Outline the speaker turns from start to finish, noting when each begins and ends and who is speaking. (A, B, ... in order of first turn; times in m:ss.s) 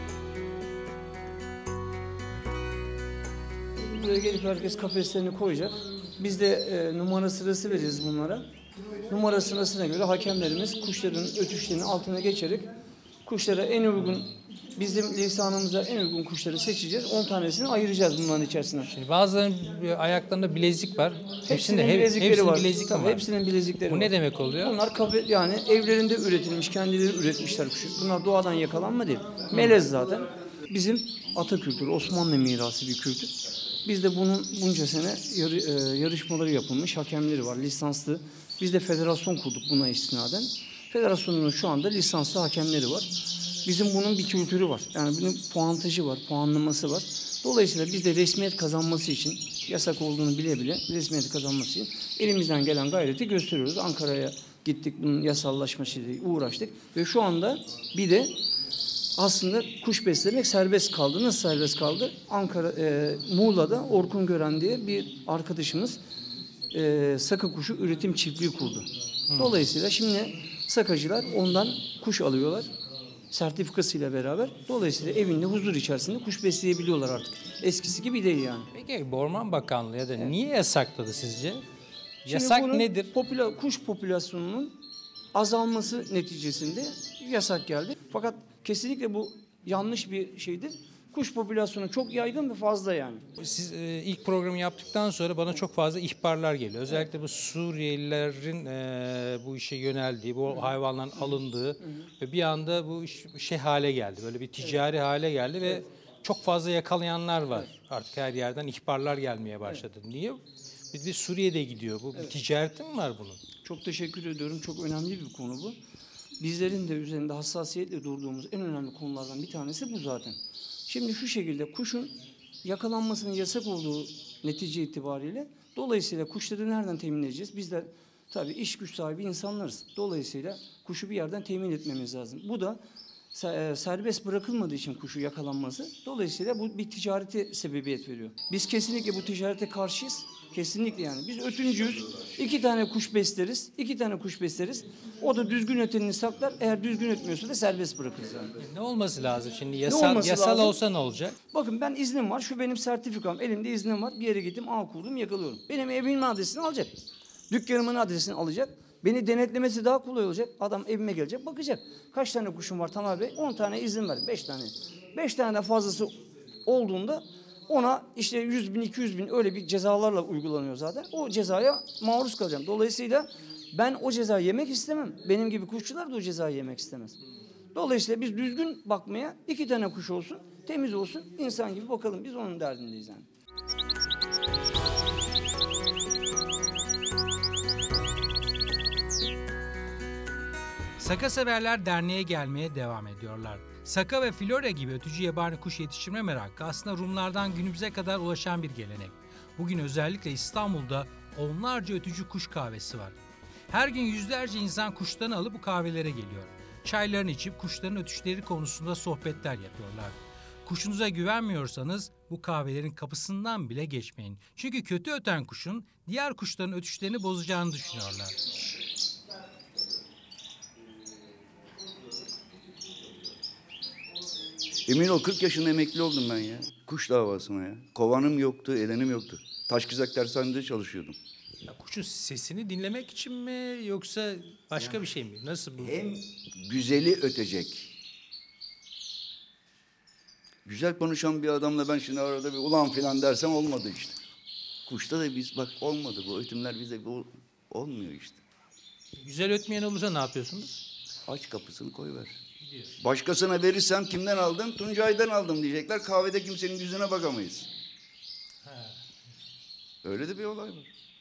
0:03.8-0:12.7 A
0:13.2-0:18.9 A
0:18.9-0:23.2 B
0:21.5-0:33.3 A
0:23.9-0:24.8 B
0:29.5-0:29.8 B
0:33.8-0:43.1 A
0:43.6-0:58.4 A
0:59.2-1:06.0 A
1:06.7-1:12.7 A
1:09.3-1:09.7 B
1:13.3-1:18.7 A
1:18.7-1:21.6 B
1:22.3-1:23.1 B
1:22.3-1:24.8 A
1:25.3-1:33.3 A
1:33.4-1:50.4 B
1:40.6-1:42.1 A
1:50.9-1:53.4 B
1:53.6-1:55.8 A
1:56.4-2:12.8 A
2:13.3-2:28.5 A
2:28.6-2:31.4 B
2:29.9-2:30.8 A
2:31.5-2:37.0 A
2:37.5-2:57.2 A
2:57.7-3:03.3 A
3:11.0-3:23.1 B
3:23.7-3:38.4 B
3:44.9-3:51.2 C
3:51.7-3:56.0 B
3:55.8-3:57.9 C
4:00.6-4:04.2 C
4:04.9-4:08.4 C
4:09.2-4:10.7 B
4:11.3-4:12.4 C
4:12.6-4:12.9 B
4:13.0-4:17.7 C
4:18.6-4:19.0 B
4:20.0-4:20.9 C